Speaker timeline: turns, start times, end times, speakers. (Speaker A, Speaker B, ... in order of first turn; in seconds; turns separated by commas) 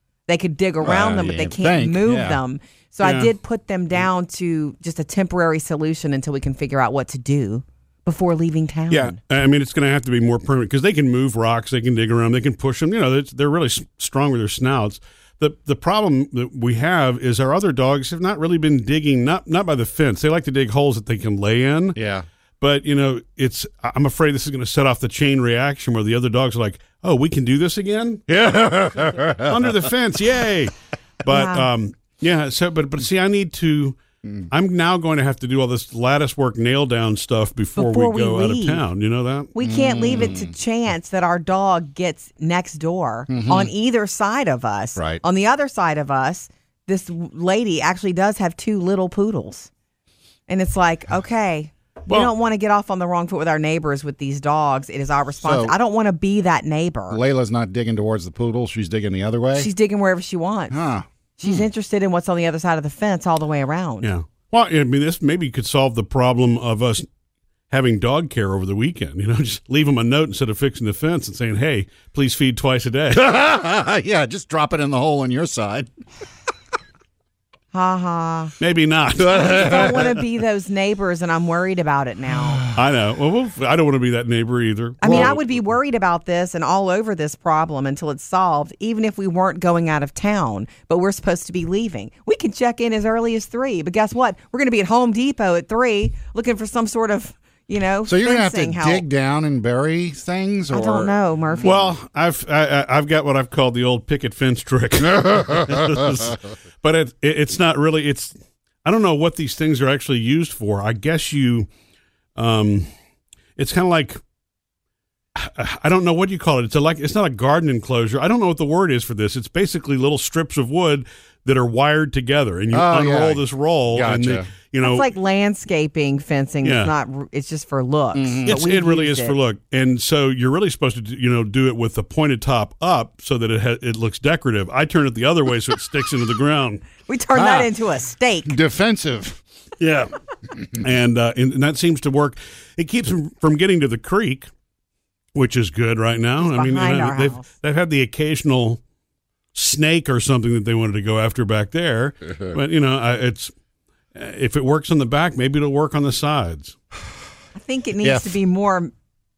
Speaker A: 0.3-9.2, Speaker B: 0.8-2.4, Speaker C: 3.0-3.3, Speaker C: 8.9-22.0, Speaker B: 21.9-22.2, Speaker C: 22.6-28.2, Speaker B: 28.3-29.8, Speaker C: 29.4-34.0, Speaker A: 31.3-31.7, Speaker C: 34.5-39.5, Speaker A: 37.8-38.8, Speaker A: 39.5-49.7, Speaker B: 39.6-40.5, Speaker B: 43.3-43.7, Speaker A: 50.5-57.2, Speaker B: 55.4-55.7, Speaker B: 57.1-59.7, Speaker A: 59.5-60.9, Speaker B: 60.7-61.6, Speaker A: 61.4-64.1, Speaker C: 64.0-67.0, Speaker C: 67.7-73.2, Speaker B: 73.1-75.9, Speaker A: 77.7-78.5, Speaker C: 78.6-79.8, Speaker A: 79.2-82.6, Speaker B: 79.3-80.0, Speaker C: 82.7-85.6, Speaker A: 85.0-99.0, Speaker B: 85.0-85.3, Speaker B: 98.0-101.1, Speaker A: 100.7-101.9, Speaker C: 101.6-111.7, Speaker C: 112.3-112.9, Speaker C: 113.6-114.2, Speaker C: 115.3-125.1, Speaker B: 122.7-124.5, Speaker A: 124.8-129.4, Speaker C: 126.6-126.9, Speaker B: 128.1-128.6, Speaker C: 128.4-136.8, Speaker A: 137.0-138.6, Speaker B: 137.3-137.7, Speaker B: 138.5-139.4, Speaker C: 139.8-140.1, Speaker C: 140.6-144.5, Speaker C: 145.3-148.8, Speaker A: 146.4-147.5, Speaker C: 149.5-153.5, Speaker C: 154.1-156.8, Speaker A: 157.5-158.9, Speaker B: 158.0-158.3